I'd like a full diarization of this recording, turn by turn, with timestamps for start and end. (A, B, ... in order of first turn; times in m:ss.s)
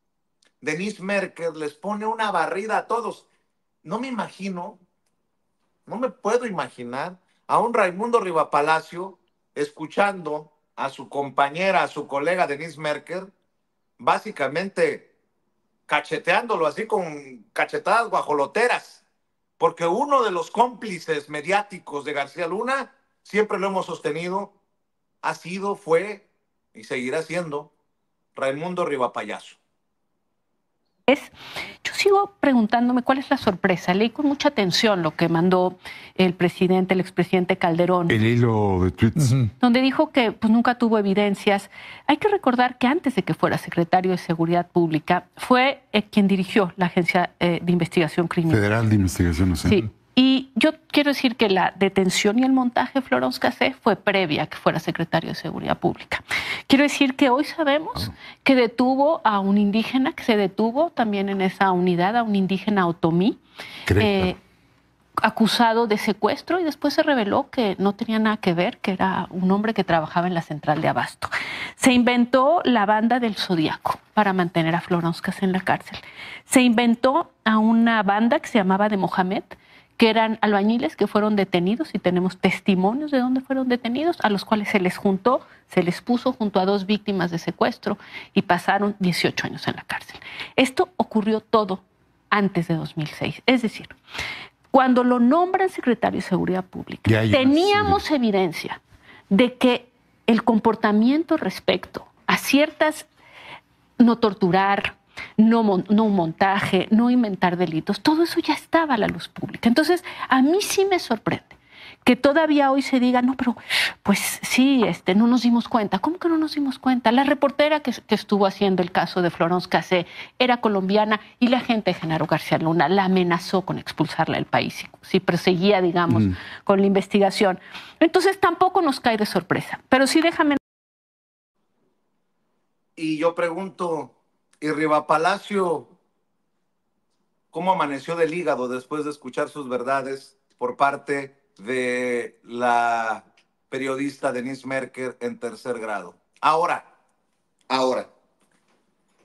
0:00.6-0:03.3 A
0:03.8-0:04.8 A
0:05.9-0:13.3 A
0:14.0-0:15.1 A
0:15.9-0:19.0 A
0:19.6-0:24.5 A
0:25.2-0:27.7 A
0:28.4-0:29.6 A
0:31.1-0:31.3 B
0:31.8-0:38.2 B
0:38.1-0:39.5 C
0:39.6-0:48.7 B
0:48.5-0:49.8 C
0:49.6-1:03.4 B
1:03.9-1:04.3 C
1:03.9-1:04.4 B
1:05.2-1:34.0 B
1:34.7-1:38.8 B
1:37.0-1:38.0 C
1:39.3-1:43.1 B
1:44.0-2:10.6 B
2:13.0-2:15.9 A
2:17.5-2:26.8 A
2:27.7-2:28.1 A